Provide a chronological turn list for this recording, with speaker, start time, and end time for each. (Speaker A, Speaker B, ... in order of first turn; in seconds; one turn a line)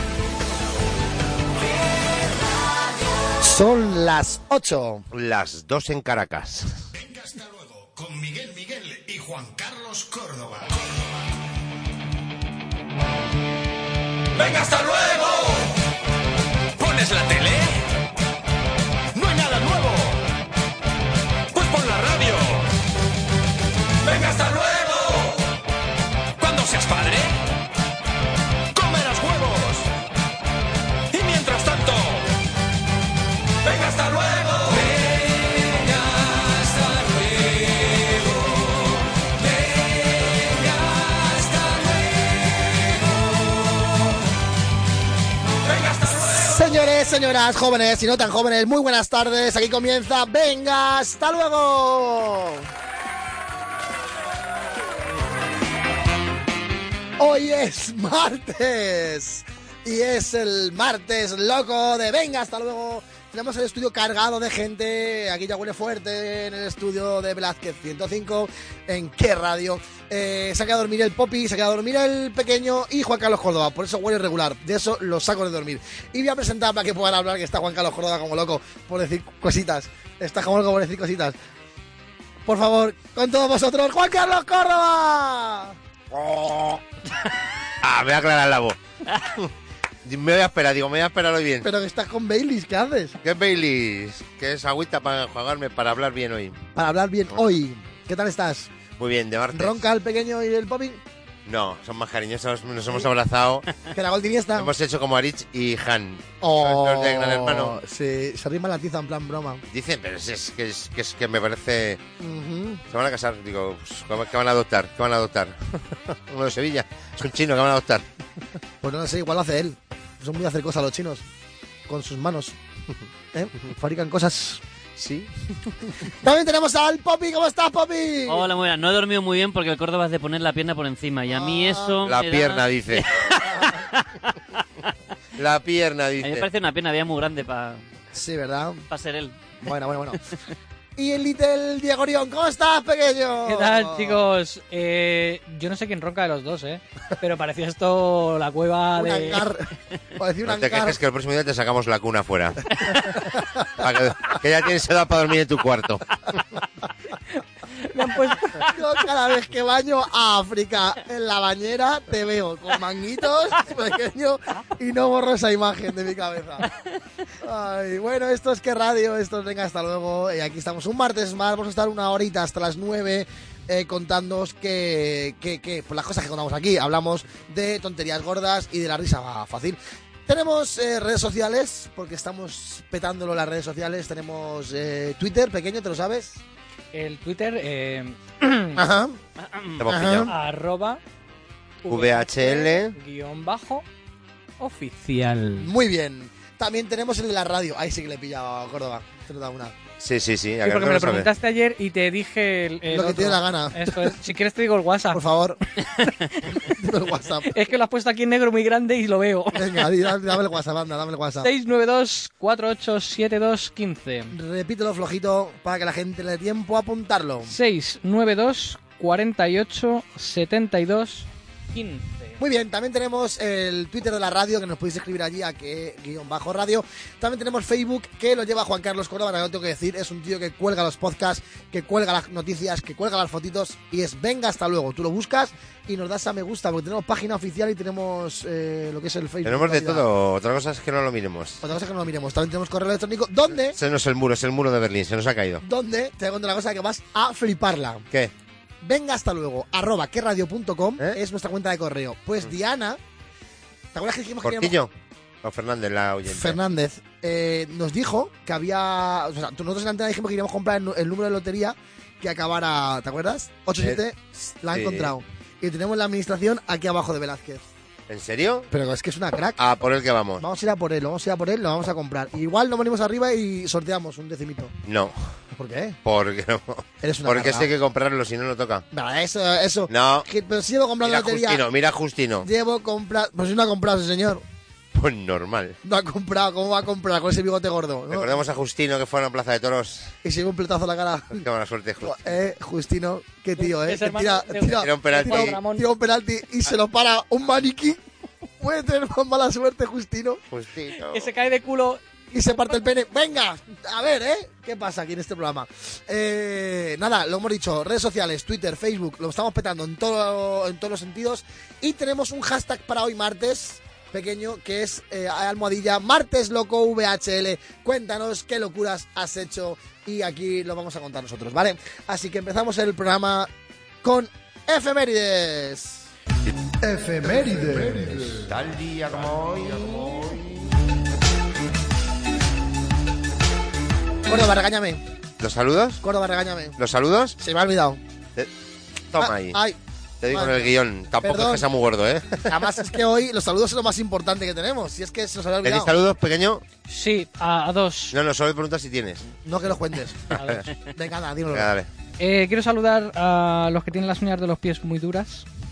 Speaker A: 3.4-5.0
Speaker B: 5.1-6.8
Speaker C: 6.9-11.3
Speaker C: 14.3-15.8
Speaker C: 16.8-17.8
Speaker C: 19.1-20.2
Speaker C: 21.5-22.7
Speaker C: 24.0-25.5
Speaker C: 26.4-27.4
Speaker C: 28.7-29.9
Speaker C: 31.1-32.3
Speaker C: 33.6-38.7
Speaker C: 39.4-42.1
Speaker C: 45.6-46.6
Speaker A: 46.4-52.7
Speaker A: 57.2-81.4
Speaker A: 82.5-85.8
Speaker B: 86.1-86.8
Speaker B: 87.8-89.5
Speaker B: 90.0-91.7
Speaker A: 91.6-93.2
Speaker B: 93.2-96.6
Speaker A: 96.8-98.7
Speaker B: 99.0-99.8
Speaker A: 99.5-101.0
Speaker B: 101.5-103.7
Speaker A: 103.9-104.7
Speaker B: 104.6-107.8
Speaker A: 106.4-109.6
Speaker B: 109.7-112.0
Speaker A: 112.2-112.8
Speaker B: 112.9-118.0
Speaker A: 118.8-121.2
Speaker A: 121.9-122.6
Speaker A: 123.3-124.6
Speaker B: 125.0-126.1
Speaker A: 126.1-128.5
Speaker D: 128.3-134.6
Speaker A: 131.3-131.9
Speaker B: 132.1-133.1
Speaker B: 135.4-136.5
Speaker D: 136.2-137.8
Speaker A: 138.1-138.8
Speaker D: 138.9-139.4
Speaker A: 139.6-140.2
Speaker A: 141.0-144.2
Speaker E: 143.5-149.5
Speaker A: 149.0-151.0
Speaker B: 150.4-156.0
Speaker A: 153.0-153.8
Speaker E: 157.9-158.7
Speaker A: 158.7-166.7
Speaker A: 167.4-186.4
Speaker E: 186.9-188.8
Speaker A: 188.8-189.2
Speaker D: 189.4-189.8
Speaker B: 189.8-190.3
Speaker A: 189.9-190.3
Speaker E: 190.3-191.0
Speaker E: 191.8-193.8
Speaker B: 191.9-192.9
Speaker E: 194.6-195.7
Speaker A: 195.6-199.8
Speaker B: 200.0-201.3
Speaker E: 200.6-205.2
Speaker A: 202.9-204.2
Speaker A: 205.1-205.6
Speaker E: 205.8-206.6
Speaker A: 206.6-207.5
Speaker E: 207.4-209.9
Speaker A: 209.5-211.5
Speaker E: 211.4-214.3
Speaker A: 214.3-217.5
Speaker E: 217.4-222.4
Speaker A: 222.4-240.1
Speaker B: 239.4-241.6
Speaker A: 241.6-243.8
Speaker B: 243.7-245.6
Speaker A: 245.6-248.1
Speaker A: 248.8-253.0
Speaker A: 253.9-254.8
Speaker B: 254.4-254.9
Speaker B: 255.4-256.6
Speaker A: 256.3-267.6
Speaker B: 264.7-265.1
Speaker B: 268.1-268.7
Speaker A: 268.7-269.6
Speaker B: 269.6-270.4
Speaker A: 270.4-274.8
Speaker B: 274.9-275.1
Speaker A: 275.6-276.0
Speaker B: 276.1-278.9
Speaker A: 277.0-277.7
Speaker A: 278.9-281.6
Speaker B: 279.9-280.3
Speaker B: 281.0-282.5
Speaker A: 282.4-284.4
Speaker B: 284.9-285.8
Speaker A: 285.8-288.4
Speaker B: 288.1-290.1
Speaker A: 290.2-291.4
Speaker B: 291.4-292.4
Speaker A: 292.0-298.0
Speaker E: 293.6-295.9
Speaker B: 294.8-295.6
Speaker A: 298.6-300.4
Speaker B: 300.5-301.3
Speaker E: 301.0-302.8
Speaker A: 302.3-323.5
Speaker A: 324.0-326.1
Speaker A: 326.8-328.5
Speaker B: 328.5-330.5
Speaker A: 329.9-330.3
Speaker A: 334.3-335.0
Speaker B: 335.4-336.0
Speaker A: 336.0-336.8
Speaker B: 336.8-337.4
Speaker A: 337.4-338.0
Speaker B: 339.1-339.6
Speaker A: 339.2-339.8
Speaker B: 340.2-342.7
Speaker A: 340.3-341.6
Speaker A: 342.5-345.9
Speaker B: 345.6-346.6
Speaker E: 346.9-348.1
Speaker B: 348.1-349.2
Speaker A: 349.4-350.3
Speaker E: 350.3-350.6
Speaker B: 350.4-350.6
Speaker A: 350.9-351.7
Speaker B: 351.5-351.9
Speaker E: 352.2-355.5